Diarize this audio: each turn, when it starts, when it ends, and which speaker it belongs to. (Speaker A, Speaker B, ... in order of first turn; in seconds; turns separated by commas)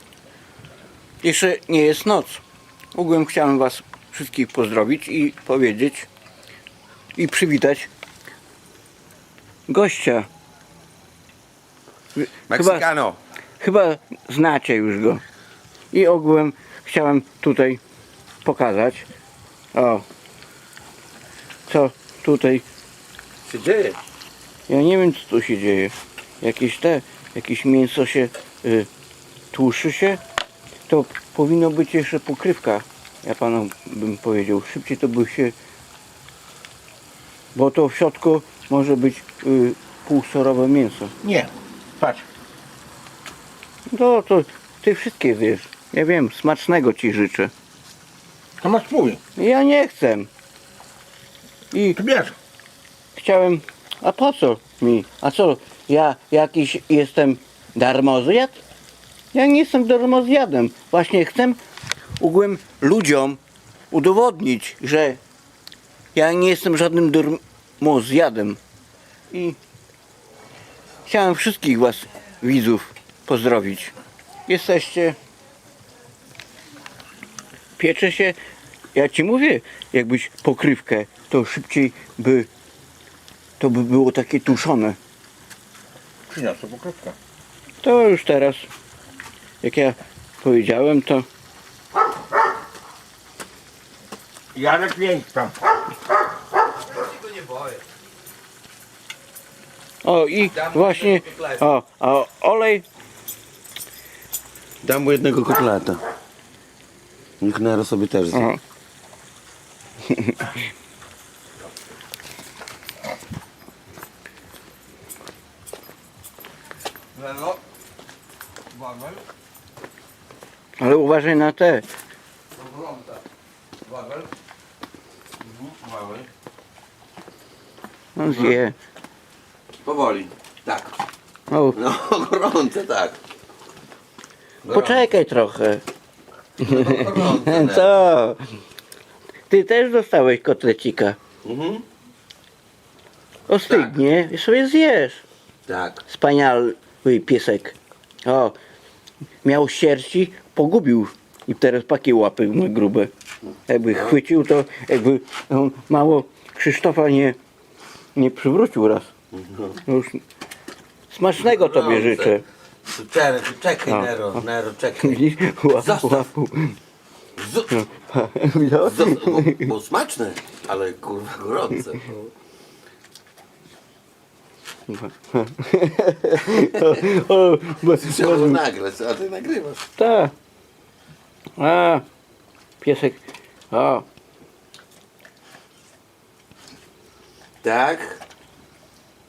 Speaker A: 1.2-2.4, Speaker A: 2.9-6.1, Speaker A: 7.2-7.9, Speaker A: 9.7-10.3, Speaker A: 12.2-12.9, Speaker B: 12.5-13.2, Speaker A: 13.6-15.2, Speaker A: 15.9-17.8, Speaker A: 18.4-19.1, Speaker A: 19.7-20.1, Speaker A: 21.7-22.6, Speaker B: 23.5-24.0, Speaker A: 24.7-28.9, Speaker A: 29.5-30.2, Speaker A: 30.9-35.5, Speaker A: 37.5-41.1, Speaker C: 41.2-42.3, Speaker A: 43.9-47.5, Speaker C: 48.6-49.2, Speaker A: 49.4-50.3, Speaker A: 51.7-52.0, Speaker C: 52.0-52.4, Speaker A: 53.2-58.6, Speaker A: 59.3-61.6, Speaker A: 62.2-63.4, Speaker A: 63.9-65.2, Speaker A: 66.2-68.6, Speaker A: 69.3-69.6, Speaker A: 71.1-73.9, Speaker A: 74.5-75.2, Speaker A: 77.8-78.4, Speaker A: 79.0-82.5, Speaker A: 83.6-85.0, Speaker C: 86.3-87.2, Speaker A: 87.8-88.7, Speaker A: 89.6-91.3, Speaker C: 94.5-95.5, Speaker B: 97.1-97.8, Speaker A: 100.0-102.8, Speaker B: 100.5-101.6, Speaker B: 104.8-106.0, Speaker B: 107.4-108.5, Speaker A: 108.3-108.6, Speaker A: 110.1-110.6, Speaker B: 117.2-117.6, Speaker B: 118.8-119.2, Speaker A: 120.8-121.9, Speaker B: 122.6-123.2, Speaker B: 123.9-124.3, Speaker B: 125.4-126.3, Speaker A: 128.2-128.8, Speaker B: 128.3-128.6, Speaker B: 129.8-131.0, Speaker A: 131.5-131.8, Speaker B: 131.8-133.2, Speaker B: 134.6-135.1, Speaker A: 134.7-135.8, Speaker B: 136.6-138.0, Speaker A: 136.6-138.4, Speaker A: 139.5-141.2, Speaker B: 141.4-141.8, Speaker A: 143.5-145.2, Speaker B: 143.7-144.0, Speaker B: 145.7-146.0, Speaker A: 146.1-148.6, Speaker A: 149.4-153.1, Speaker A: 153.7-157.4, Speaker A: 158.2-159.1, Speaker B: 159.3-159.8, Speaker A: 159.8-160.2, Speaker A: 161.1-162.4, Speaker B: 161.4-166.3, Speaker A: 165.0-166.8, Speaker B: 167.4-167.8, Speaker A: 167.7-169.7, Speaker B: 168.8-172.3, Speaker A: 174.9-178.6, Speaker B: 176.5-177.3, Speaker B: 177.8-179.8, Speaker A: 180.0-180.3, Speaker A: 181.6-182.0, Speaker A: 182.8-183.2, Speaker A: 183.7-184.1, Speaker B: 187.6-188.2